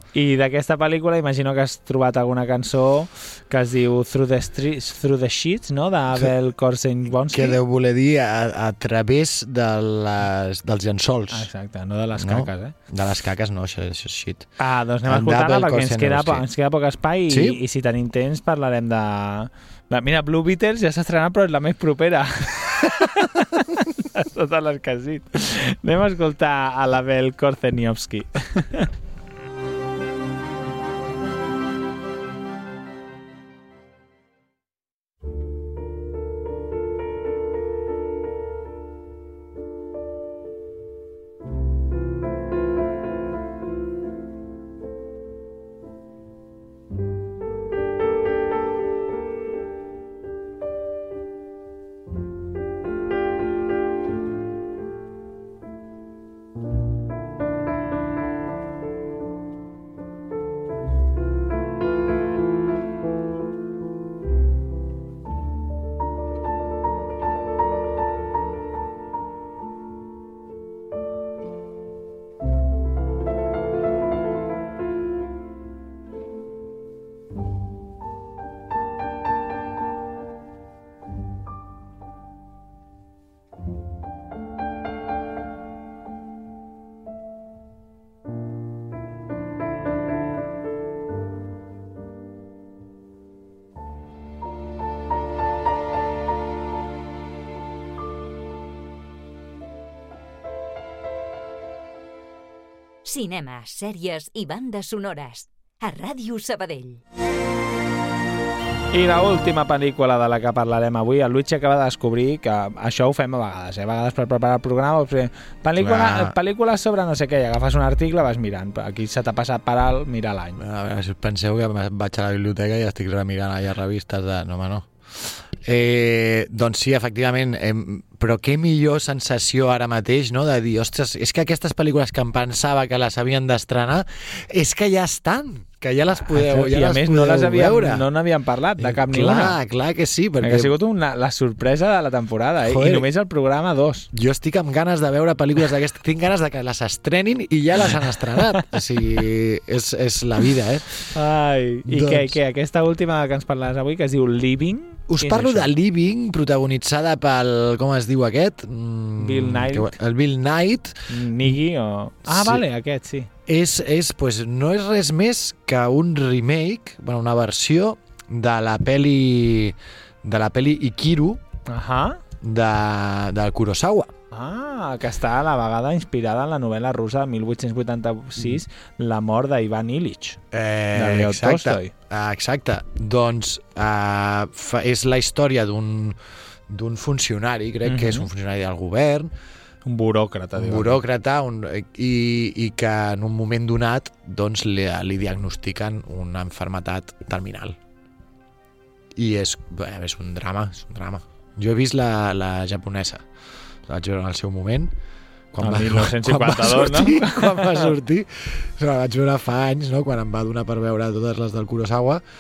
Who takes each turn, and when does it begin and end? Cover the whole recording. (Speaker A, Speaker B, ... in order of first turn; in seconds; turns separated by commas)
Speaker A: 0.1-7.6, Speaker B: 7.3-11.5, Speaker A: 11.3-12.7, Speaker B: 12.2-14.5, Speaker A: 14.6-28.9, Speaker B: 15.1-16.4, Speaker B: 17.3-17.6, Speaker C: 103.1-105.5, Speaker C: 106.0-106.7, Speaker A: 108.9-120.6, Speaker B: 115.8-116.4, Speaker B: 120.6-138.1, Speaker A: 136.3-139.6, Speaker B: 138.8-140.8, Speaker A: 140.4-144.1, Speaker B: 142.6-143.1, Speaker B: 144.1-151.1, Speaker A: 151.1-155.7, Speaker B: 151.9-152.3, Speaker B: 155.1-161.0, Speaker A: 159.2-159.9, Speaker A: 161.1-163.3, Speaker B: 162.3-162.6, Speaker B: 163.5-171.4, Speaker A: 171.7-172.2, Speaker B: 172.4-174.1, Speaker A: 174.3-180.4, Speaker B: 180.5-186.2, Speaker A: 180.9-181.9, Speaker B: 186.7-189.3, Speaker A: 187.8-188.3, Speaker A: 189.8-191.0, Speaker B: 190.6-197.8, Speaker B: 199.2-203.2, Speaker B: 203.9-204.9, Speaker B: 205.5-212.2, Speaker A: 205.6-207.9